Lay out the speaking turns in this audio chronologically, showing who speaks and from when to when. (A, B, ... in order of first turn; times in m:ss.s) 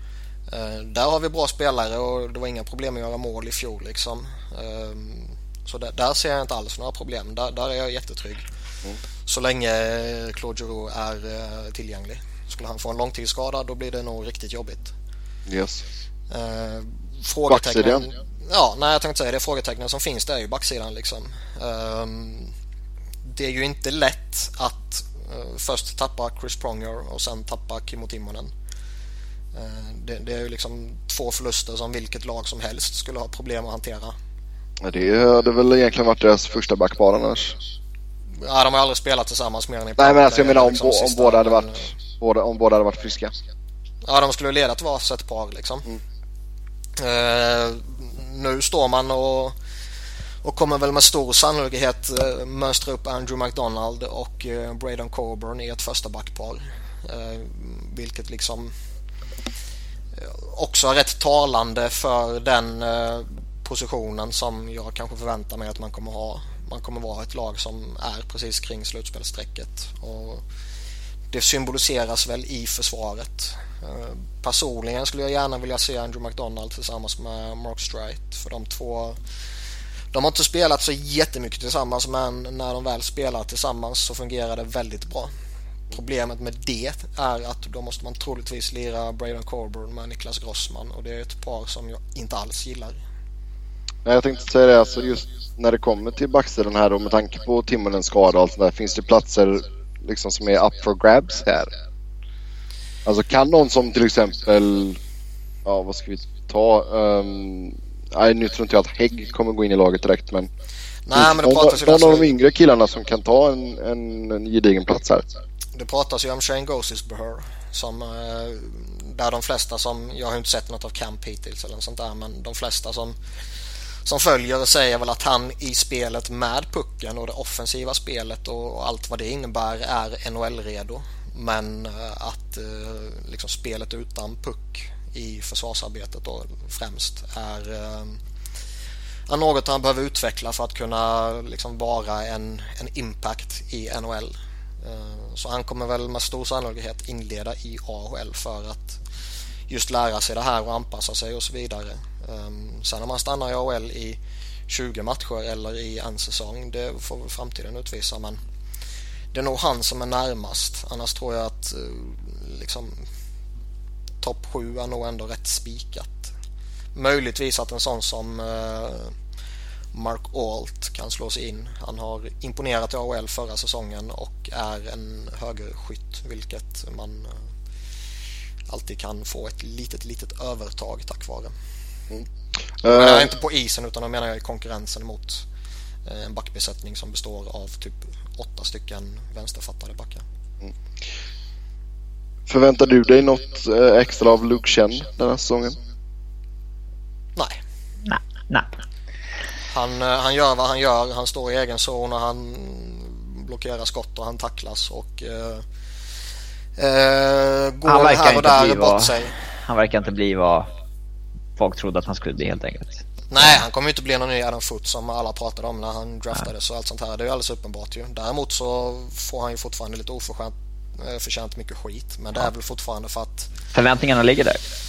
0:00.5-0:08.4 A
0:09.2-0:14.9 A
0:15.5-0:15.8 B
0:16.3-0:22.5 A
0:17.5-0:18.0 B
0:23.3-0:28.5 A
0:29.5-0:34.1 A
0:34.8-0:37.6 B
0:38.4-0:41.9 A
0:40.0-0:43.3 B
0:44.0-0:45.9 A
0:47.0-0:49.5 A
0:50.4-0:58.7 A
1:00.2-1:10.4 A
1:11.3-1:19.2 A
1:20.1-1:25.3 A
1:25.9-1:33.0 A
1:34.0-1:41.7 B
1:43.0-1:45.0 B
1:45.6-1:50.5 B
1:51.0-1:52.3 A
1:51.1-1:55.2 B
1:55.7-2:03.2 A
2:04.0-2:18.2 A
2:19.3-2:29.0 A
2:29.7-2:38.4 A
2:39.3-2:43.0 A
2:44.2-2:46.3 A
2:46.9-2:49.1 A
2:49.9-2:57.4 A
2:58.7-3:01.5 A
3:02.8-3:03.3 B
3:02.8-3:05.4 A
3:06.0-3:10.2 A
3:12.5-3:15.8 B
3:18.0-3:18.7 C
3:19.7-3:25.6 A
3:26.8-3:29.4 A
3:27.8-3:30.7 C
3:31.6-3:33.6 C
3:33.3-3:43.5 A
3:43.7-3:44.6 C